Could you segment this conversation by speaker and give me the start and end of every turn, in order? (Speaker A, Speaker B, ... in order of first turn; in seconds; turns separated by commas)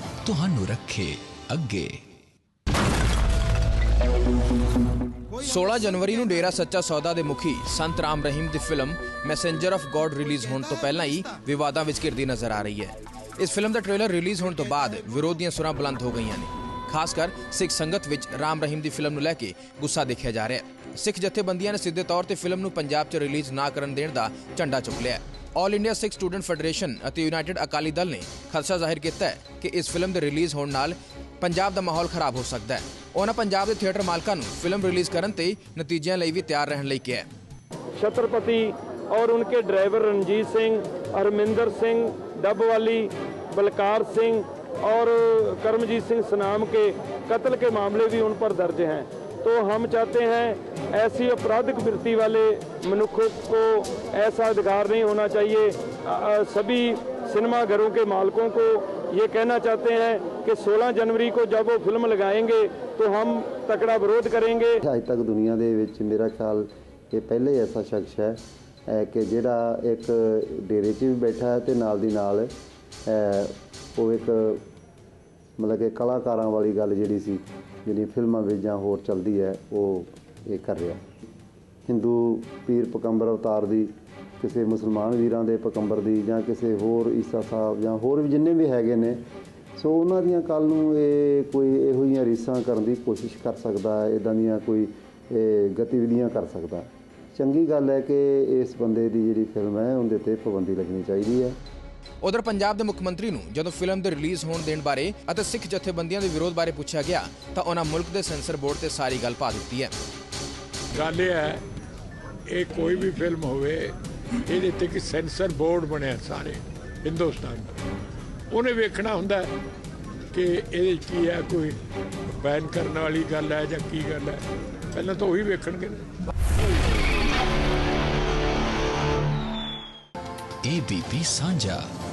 Speaker A: 0.2-1.9, Speaker B: 5.3-37.3, Speaker C: 38.0-64.8, Speaker D: 64.8-72.5, Speaker D: 73.0-74.6, Speaker D: 75.6-81.0, Speaker D: 81.8-89.2, Speaker D: 89.8-101.6, Speaker B: 102.2-109.9, Speaker E: 110.9-111.6, Speaker E: 112.5-117.8, Speaker E: 118.5-119.5, Speaker E: 120.3-126.1, Speaker A: 130.6-131.8